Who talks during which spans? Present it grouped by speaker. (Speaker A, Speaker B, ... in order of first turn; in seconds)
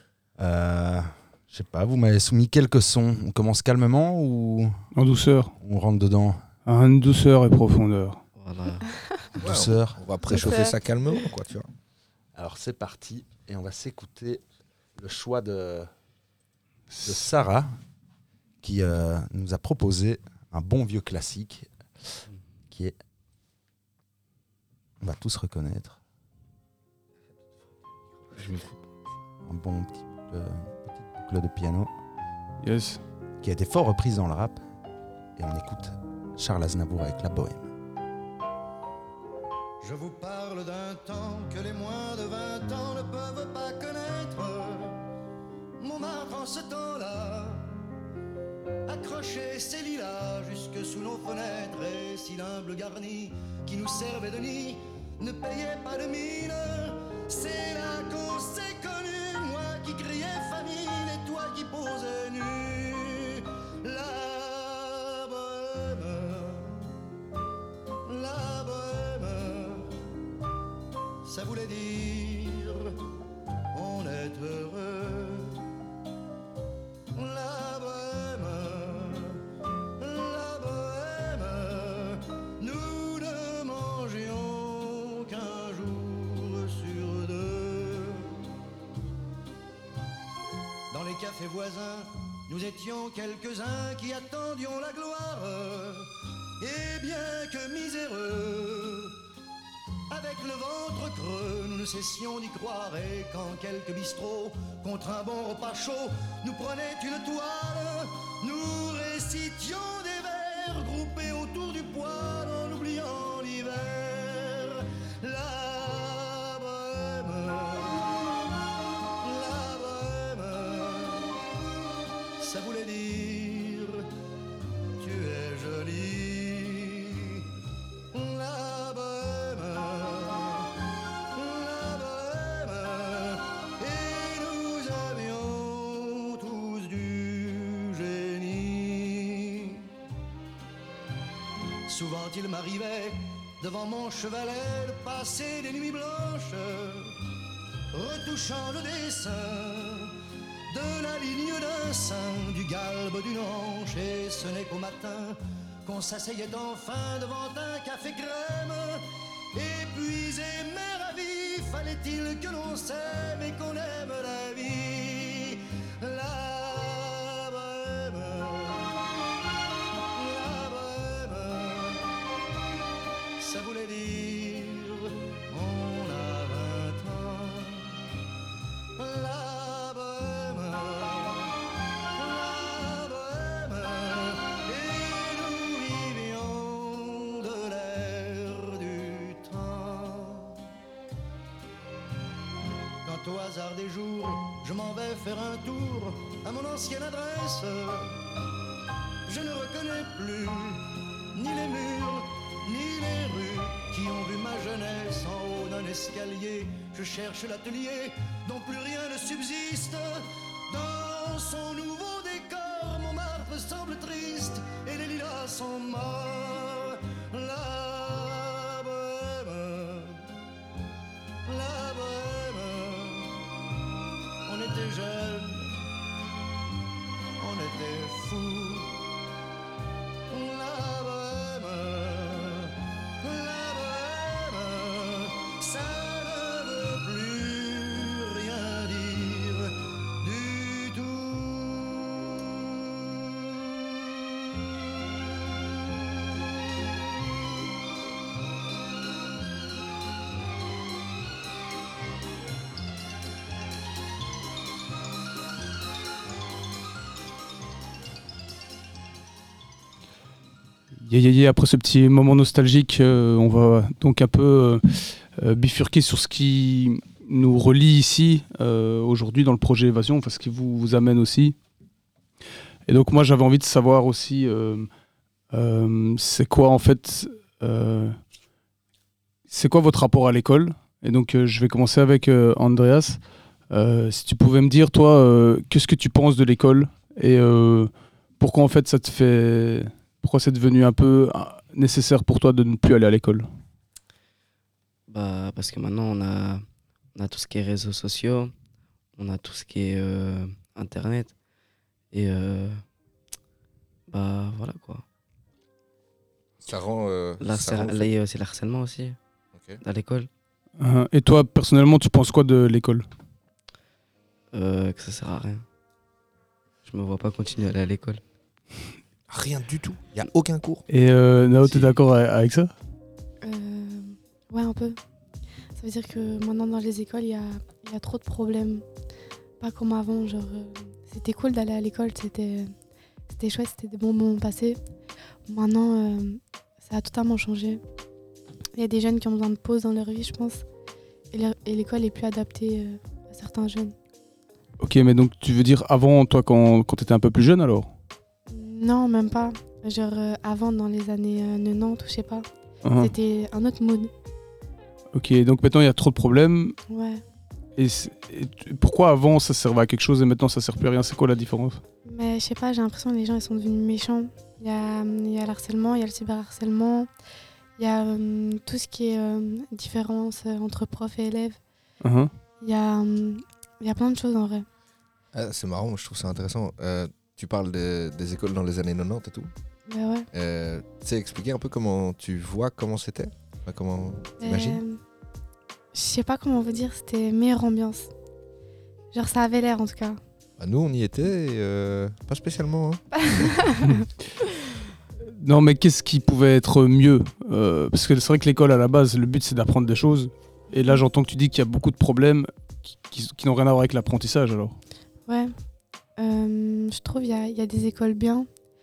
Speaker A: 0.4-4.8, 5.6-6.5, 9.4-10.0, 12.3-14.4, 15.0-15.9, 17.0-17.7, 18.6-21.7, 25.0-26.0, 29.4-31.9, 33.4-34.6, 35.4-37.7
Speaker B: 5.0-5.5, 6.7-8.2, 16.9-17.2, 32.6-33.0, 261.0-271.6, 272.9-274.9, 275.5-278.2, 279.5-293.5, 310.8-313.0, 320.9-322.7, 344.8-347.9, 352.8-353.1, 355.1-356.8, 357.8-361.8, 372.0-372.3, 395.3-404.8
Speaker C: 8.3-8.9, 295.1-298.5, 299.2-301.3, 302.1-302.8, 304.1-305.1, 307.4-309.2, 309.8-310.3, 314.5-315.6, 316.8-318.2
Speaker D: 9.4-11.7, 306.6-308.1, 309.6-309.8, 319.3-320.8, 375.3-379.5, 380.3-384.8, 390.6-393.6
Speaker E: 10.3-10.8, 323.4-325.0, 325.8-328.9, 329.6-332.7, 333.3-334.8, 335.5-337.8, 338.8-340.6, 341.3-343.9, 348.5-352.5, 353.0-354.1, 356.9-357.2, 362.1-367.1, 367.8-371.6, 372.6-374.7, 379.9-380.3, 384.4-385.0, 385.9-388.1, 389.1-390.2, 393.3-394.0, 405.3-405.5, 406.2-408.5
Speaker F: 39.8-45.0, 45.8-47.7, 48.9-66.9, 68.1-69.9, 71.2-73.0, 73.7-75.6, 77.1-79.4, 80.0-88.4, 90.9-99.2, 100.1-118.0, 119.2-121.3, 122.4-124.1, 125.0-127.4, 128.1-130.7, 131.3-139.9, 141.9-147.2, 147.9-150.1, 150.7-168.9, 170.1-172.1, 173.4-178.0, 179.0-181.5, 182.2-190.6, 193.0-198.2, 199.3-220.2, 221.5-223.4, 224.5-225.8, 227.4-229.0, 230.3-242.0